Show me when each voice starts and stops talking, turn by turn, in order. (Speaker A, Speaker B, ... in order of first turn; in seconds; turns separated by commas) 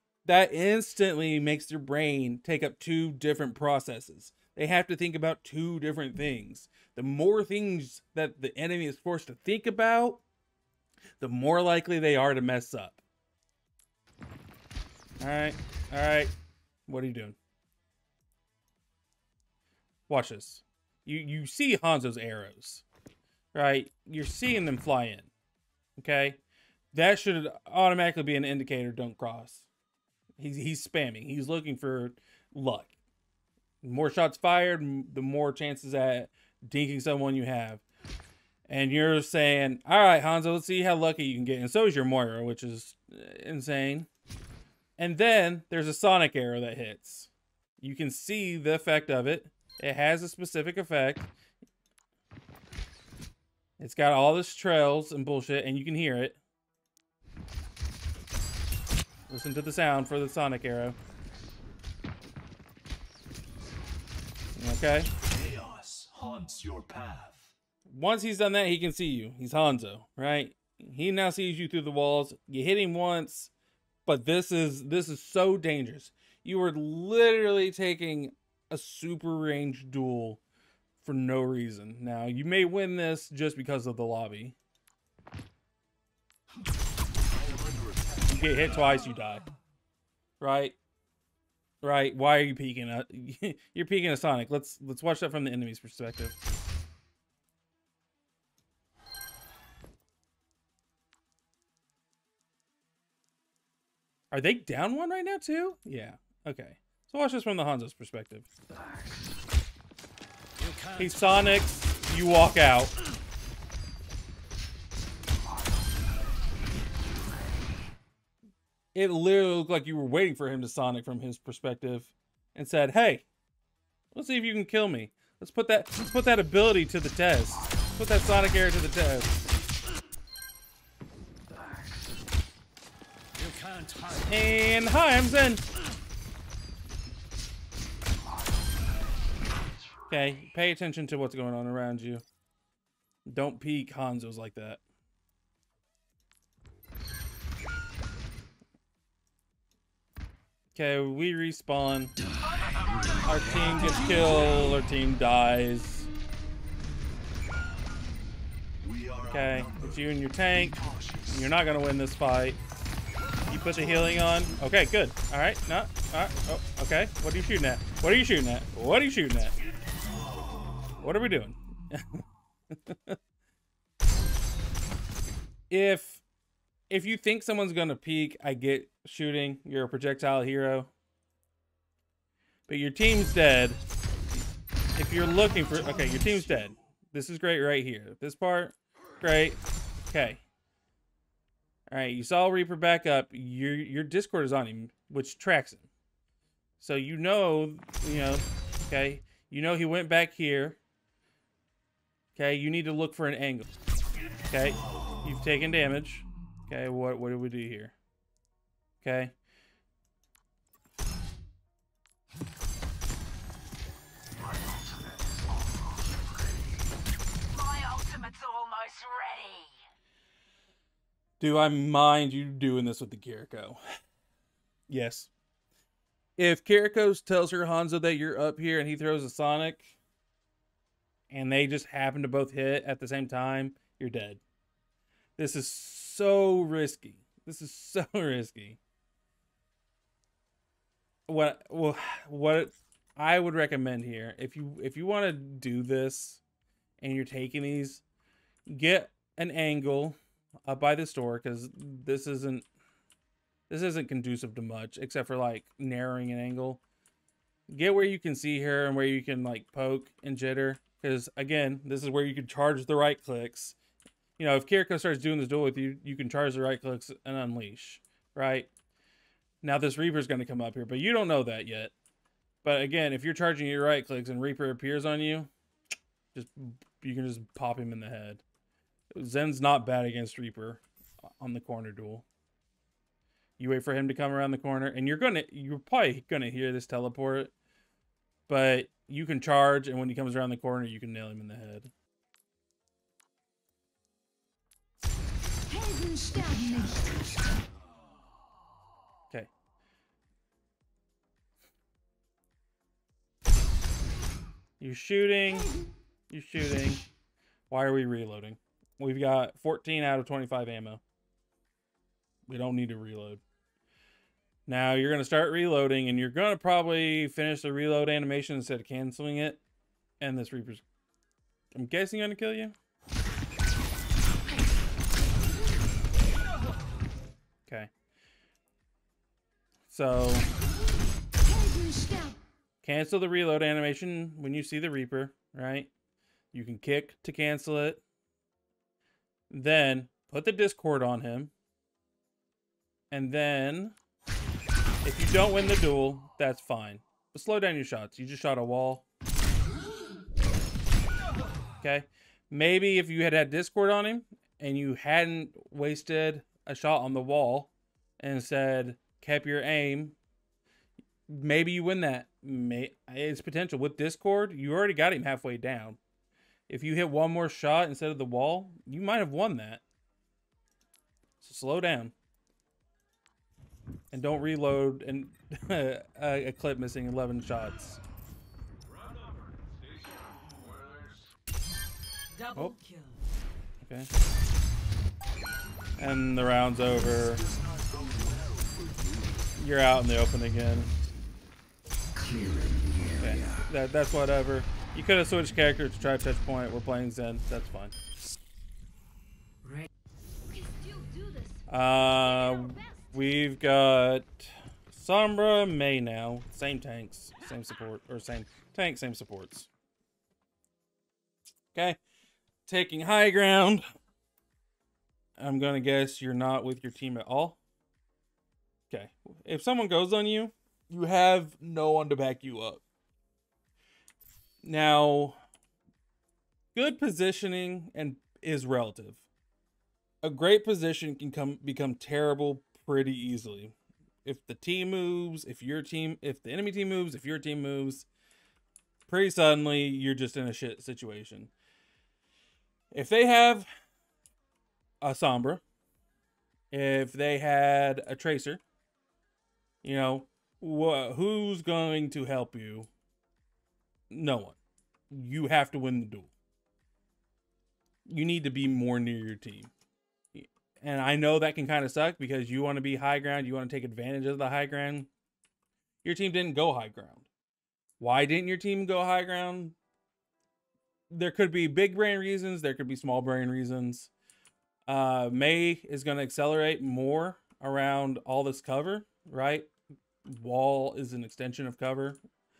Speaker A: 0.2-10.2, Speaker A: 11.2-13.0, Speaker A: 15.2-16.3, Speaker A: 16.9-17.4, Speaker A: 20.1-22.8, Speaker A: 23.5-25.3, Speaker A: 26.0-26.4, Speaker A: 26.9-29.7, Speaker A: 30.4-32.9, Speaker A: 33.8-37.8, Speaker A: 38.7-44.1, Speaker A: 45.0-51.3, Speaker A: 53.8-56.4, Speaker A: 59.3-61.0, Speaker A: 64.5-65.1, Speaker B: 65.2-67.5, Speaker A: 67.9-73.5, Speaker A: 74.0-80.4, Speaker A: 81.0-84.5, Speaker B: 87.2-88.7, Speaker A: 88.3-89.4, Speaker A: 90.4-90.8, Speaker A: 91.8-96.4, Speaker A: 104.3-108.5, Speaker A: 111.0-112.9, Speaker A: 118.9-123.2, Speaker A: 124.1-129.3, Speaker A: 134.2-135.6, Speaker A: 140.1-142.2, Speaker A: 143.2-144.8, Speaker A: 150.7-152.1, Speaker B: 152.8-153.3, Speaker A: 153.2-156.1, Speaker B: 158.8-161.5, Speaker A: 159.3-162.6, Speaker A: 163.5-169.6, Speaker B: 170.3-170.6, Speaker A: 171.0-173.2, Speaker A: 175.7-176.2, Speaker A: 176.9-180.9, Speaker A: 182.7-183.8, Speaker A: 184.9-190.4, Speaker A: 191.9-195.9, Speaker A: 196.8-200.8, Speaker A: 202.3-203.7, Speaker A: 204.5-207.9, Speaker A: 209.0-209.3, Speaker C: 217.5-219.7, Speaker A: 221.4-223.8, Speaker A: 224.9-225.3, Speaker A: 226.4-229.9, Speaker A: 231.3-234.4, Speaker A: 235.4-238.8, Speaker A: 241.3-246.4, Speaker A: 247.0-248.0, Speaker A: 248.7-252.7, Speaker A: 253.7-256.8, Speaker A: 257.7-263.8, Speaker A: 264.4-268.7, Speaker A: 269.6-271.9, Speaker A: 272.6-275.5, Speaker A: 276.3-278.4, Speaker A: 279.1-280.8, Speaker A: 281.4-282.2, Speaker A: 283.6-287.5, Speaker A: 288.5-291.9, Speaker D: 295.9-296.9, Speaker A: 304.8-305.7, Speaker A: 306.3-307.0, Speaker A: 307.7-311.0, Speaker A: 312.5-313.4, Speaker A: 314.7-319.6, Speaker A: 320.2-320.8, Speaker A: 321.7-322.7, Speaker A: 329.9-330.5, Speaker A: 332.8-335.9, Speaker A: 336.5-338.0, Speaker A: 339.5-341.5, Speaker A: 343.1-343.9, Speaker A: 345.0-349.0, Speaker A: 351.8-360.1, Speaker A: 361.3-366.0, Speaker A: 366.7-369.8, Speaker A: 371.4-372.1, Speaker A: 374.1-378.0, Speaker D: 382.3-383.2, Speaker A: 383.8-384.1, Speaker A: 386.0-387.4, Speaker B: 386.9-389.5, Speaker A: 389.6-390.9, Speaker A: 393.2-397.9, Speaker C: 400.6-401.5, Speaker A: 401.7-409.7, Speaker A: 411.7-412.0, Speaker A: 412.6-413.8, Speaker A: 415.4-417.6, Speaker A: 418.9-422.8, Speaker A: 424.6-425.4, Speaker A: 426.7-429.2, Speaker A: 430.2-433.7, Speaker A: 434.2-438.1, Speaker A: 439.1-441.5, Speaker A: 442.9-443.7, Speaker A: 445.0-445.6, Speaker A: 446.7-448.6, Speaker A: 449.8-452.9, Speaker A: 454.1-454.6, Speaker A: 455.1-456.3, Speaker A: 458.1-459.7, Speaker A: 460.3-465.1, Speaker A: 466.0-467.3, Speaker A: 468.0-469.8, Speaker A: 471.1-474.1, Speaker A: 474.9-479.7, Speaker A: 480.2-482.2